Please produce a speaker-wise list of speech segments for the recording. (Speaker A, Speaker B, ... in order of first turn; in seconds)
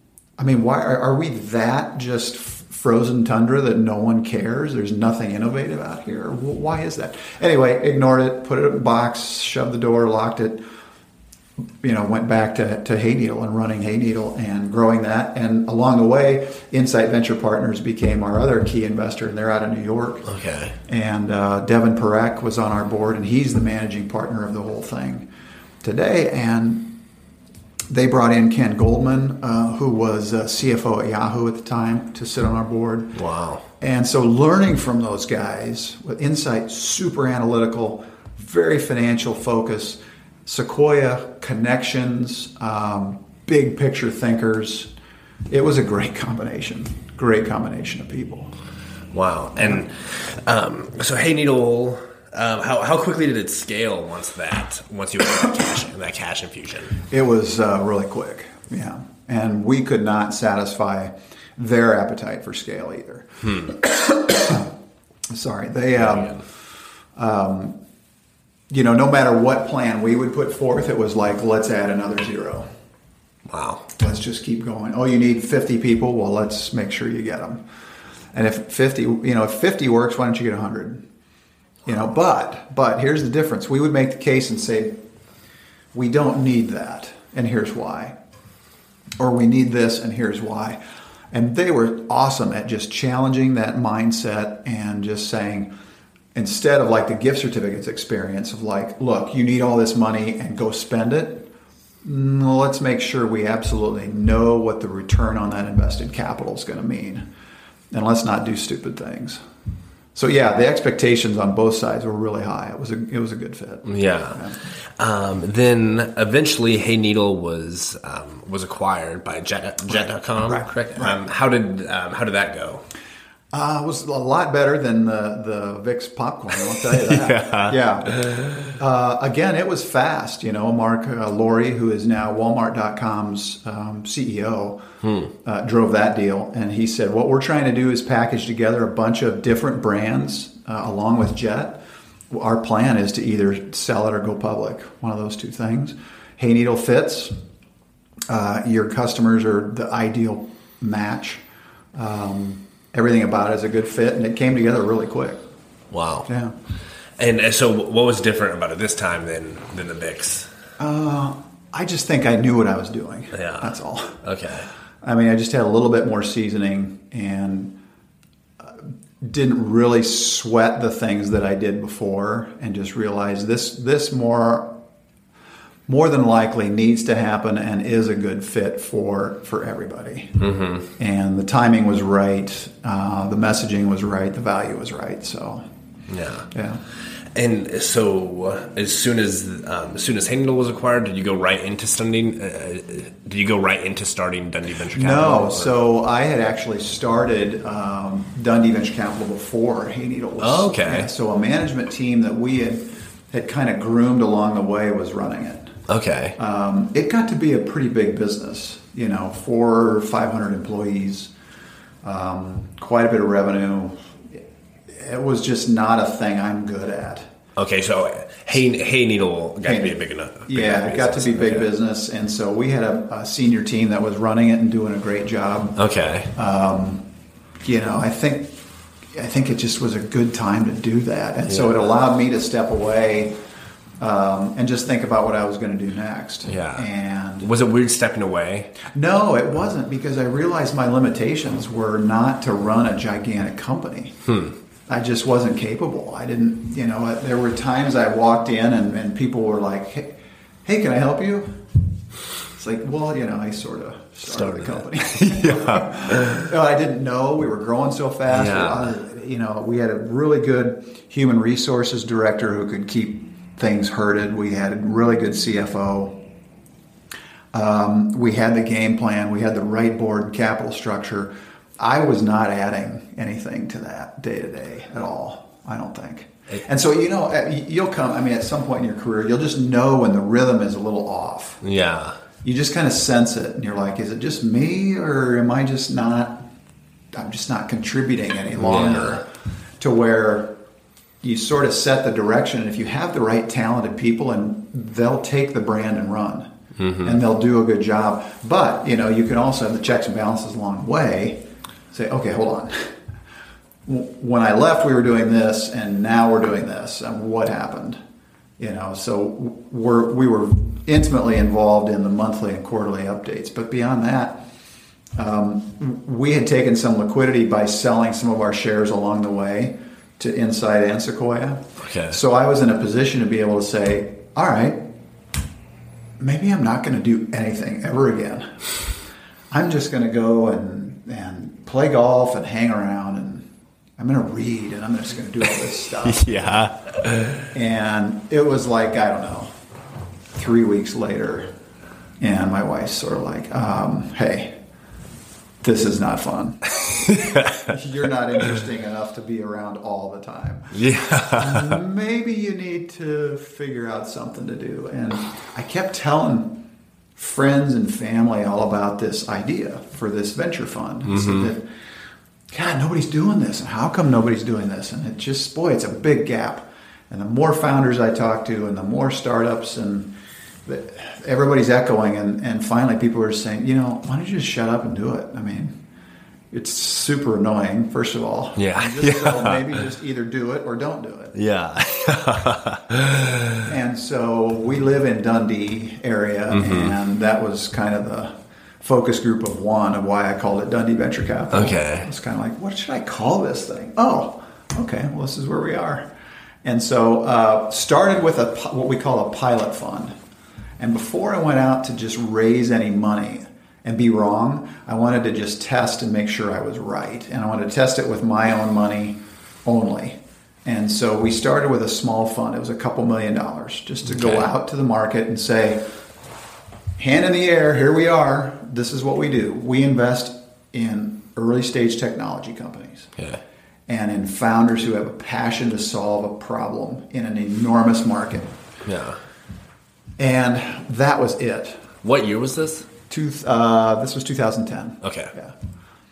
Speaker A: 0.4-10.6, 11.8-20.3, 20.9-25.3, 25.8-26.9, 27.9-33.2, 33.8-44.9, 45.5-48.5, 57.0-64.7, 65.3-66.4, 67.1-67.8, 68.7-72.7, 74.0-77.6, 78.3-81.0, 81.8-84.9, 85.9-88.2, 89.2-90.8, 91.3-95.7, 96.3-101.5, 102.0-107.2, 107.9-109.4, 110.1-114.6, 120.4-121.2, 123.5-128.1, 128.8-134.8, 135.4-147.3, 148.3-151.4, 151.9-155.4, 156.3-156.5, 160.8-164.2, 165.0-167.8, 168.6-174.7, 175.9-180.4, 181.0-185.6, 186.5-186.8, 194.9-205.7, 206.4-211.3, 212.0-217.3, 219.6-225.8, 226.3-227.0, 227.6-228.6, 229.1-233.3, 234.0-237.5, 238.8-244.2, 244.9-251.6, 252.5-266.1, 267.5-281.6, 282.4-286.4, 287.1-289.3, 289.8-290.5, 291.2-296.5, 297.0-302.9, 303.9-308.0, 308.6-314.4, 315.1-324.9, 326.2-328.6, 329.5-333.4, 334.0-336.3, 337.5-339.5, 340.3-341.5, 342.2-344.5, 345.6-350.7, 351.3-356.6, 357.1-361.7, 362.5-370.1, 370.6-375.7, 376.5-381.3, 383.6-396.1, 396.6-400.1, 400.8-415.8, 417.0-423.1, 423.9-428.5, 430.2-431.8, 433.1-435.5
Speaker B: 20.2-20.8, 33.1-33.6, 49.1-57.0, 63.4-63.7, 66.0-66.4, 73.5-73.9, 113.8-122.8, 126.8-128.7, 135.0-135.3, 155.9-156.3, 157.2-160.5, 163.3-164.7, 180.4-180.9, 186.1-186.5, 187.3-195.7, 200.4-201.1, 205.9-206.3, 217.6-221.7, 225.8-226.3, 231.5-231.7, 236.4-236.9, 237.4-238.7, 244.3-244.5, 254.2-256.5, 258.3-258.9, 281.6-282.2, 288.6-289.2, 296.8-297.2, 321.8-322.2, 336.0-337.5, 346.8-347.7, 350.7-351.8, 361.1-361.5, 378.6-379.8, 381.3-383.6, 386.5-386.9, 391.5-392.1, 414.1-414.4, 428.9-429.2, 432.0-432.9, 435.0-435.3